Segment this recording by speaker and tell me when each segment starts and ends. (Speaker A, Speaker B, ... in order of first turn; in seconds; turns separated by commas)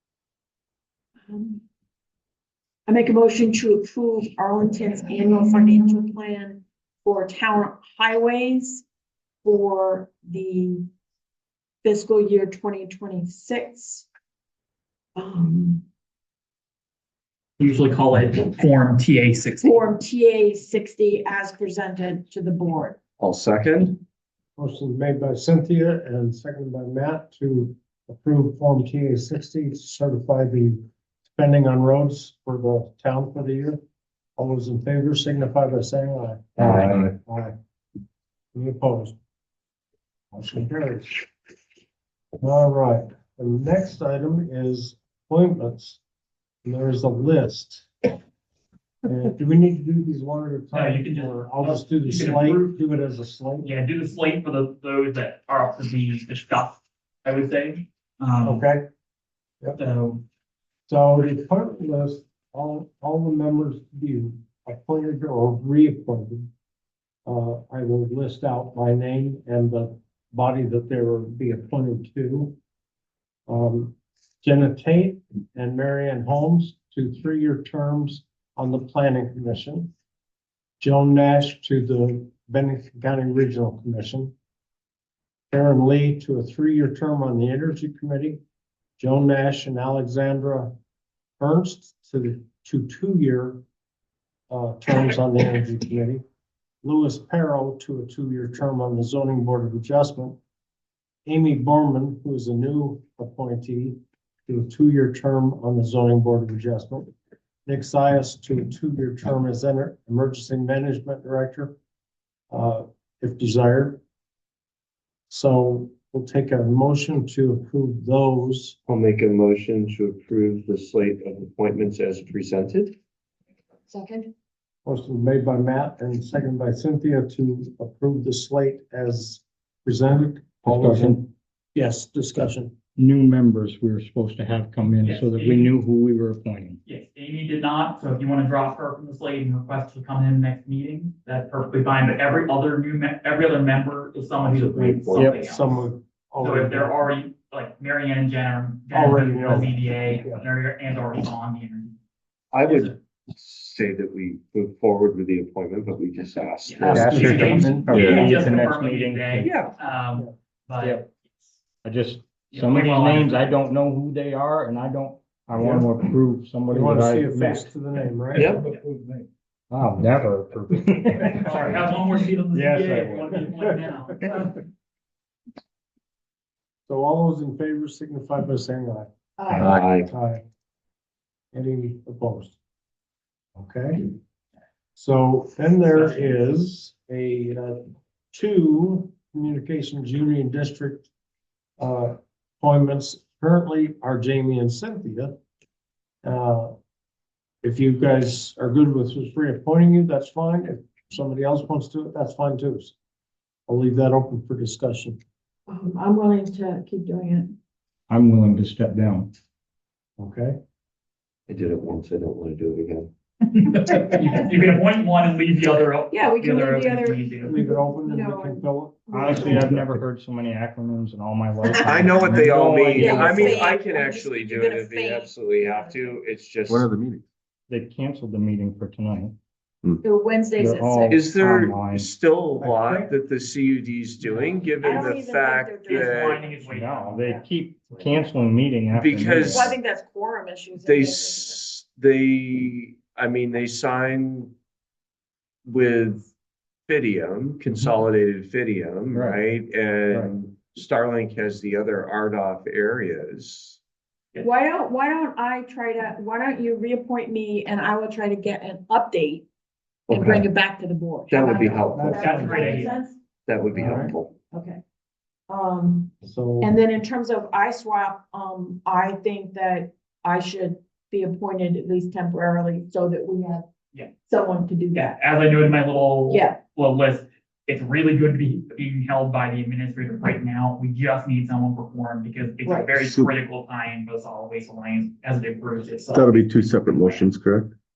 Speaker A: 1.3-1.6, Speaker A: 2.9-8.8, Speaker A: 9.4-10.9, Speaker A: 11.8-14.1, Speaker A: 15.2-15.8, Speaker B: 17.6-19.7, Speaker A: 19.6-23.0, Speaker C: 23.2-24.0, Speaker D: 24.6-33.8, Speaker D: 34.4-37.5, Speaker D: 38.5-39.1, Speaker D: 40.3-41.2, Speaker D: 42.4-46.0, Speaker D: 46.6-47.9, Speaker D: 49.0-53.7, Speaker B: 50.7-52.7, Speaker B: 53.6-58.6, Speaker D: 58.4-58.9, Speaker B: 59.8-60.2, Speaker D: 60.9-66.5, Speaker D: 67.2-72.5, Speaker D: 73.5-79.9, Speaker D: 80.8-84.3, Speaker D: 85.5-88.4, Speaker D: 89.0-90.7, Speaker D: 91.4-93.6, Speaker D: 94.5-96.2, Speaker D: 96.8-100.4, Speaker D: 101.2-107.1, Speaker D: 107.7-111.7, Speaker D: 112.5-114.0, Speaker D: 115.3-118.8, Speaker C: 118.9-123.0, Speaker A: 123.9-124.3, Speaker D: 124.8-132.7, Speaker E: 130.6-131.2, Speaker E: 132.9-136.8, Speaker B: 135.0-135.7, Speaker B: 136.8-145.9, Speaker C: 144.4-145.2, Speaker D: 145.0-147.2, Speaker E: 145.1-145.4, Speaker B: 146.4-151.9, Speaker D: 148.9-150.4, Speaker C: 152.5-158.2, Speaker B: 152.6-152.9, Speaker B: 156.7-161.5, Speaker D: 156.8-158.0, Speaker E: 156.9-159.5, Speaker F: 157.0-158.3, Speaker C: 159.4-159.7, Speaker E: 161.8-167.7, Speaker B: 162.5-163.4, Speaker D: 165.6-165.9, Speaker D: 166.7-168.6, Speaker C: 168.3-168.6, Speaker E: 168.7-168.9, Speaker E: 169.7-171.9, Speaker B: 171.4-174.3, Speaker E: 172.5-173.4, Speaker D: 176.9-179.1, Speaker A: 179.4-179.8, Speaker D: 179.6-180.4, Speaker C: 179.6-180.1, Speaker D: 181.5-182.6, Speaker D: 183.6-184.1, Speaker D: 184.9-191.1, Speaker B: 185.9-186.4, Speaker D: 191.8-195.3, Speaker D: 196.2-196.7, Speaker D: 197.6-202.9, Speaker D: 203.7-205.2, Speaker A: 205.7-207.6, Speaker E: 208.1-209.3, Speaker D: 210.2-210.6, Speaker C: 211.5-213.1, Speaker B: 213.4-217.6, Speaker A: 216.1-219.7, Speaker D: 217.4-219.7, Speaker E: 219.1-223.7, Speaker A: 221.7-222.3, Speaker C: 221.8-226.8, Speaker A: 222.9-226.2, Speaker F: 223.1-224.2, Speaker F: 226.7-227.2, Speaker E: 227.7-229.3, Speaker A: 230.0-231.3, Speaker E: 230.6-232.1, Speaker C: 231.1-236.4, Speaker D: 232.6-233.1, Speaker A: 234.7-236.7, Speaker B: 235.8-237.2, Speaker E: 236.7-239.8, Speaker C: 238.9-239.7, Speaker A: 239.4-241.6, Speaker C: 240.8-244.5, Speaker C: 245.7-246.3, Speaker C: 246.9-253.8, Speaker E: 249.1-249.4, Speaker A: 254.4-259.5, Speaker A: 260.1-263.2, Speaker C: 260.1-260.4, Speaker C: 261.3-262.2, Speaker F: 261.5-261.9, Speaker D: 261.9-262.9, Speaker B: 262.1-262.9, Speaker C: 263.5-264.3, Speaker D: 263.7-264.1, Speaker A: 264.5-264.8, Speaker A: 265.5-273.6, Speaker D: 266.2-266.7, Speaker A: 274.2-275.2, Speaker B: 274.9-287.3, Speaker A: 276.3-276.6, Speaker A: 282.6-283.0, Speaker F: 283.0-283.3, Speaker F: 286.1-287.7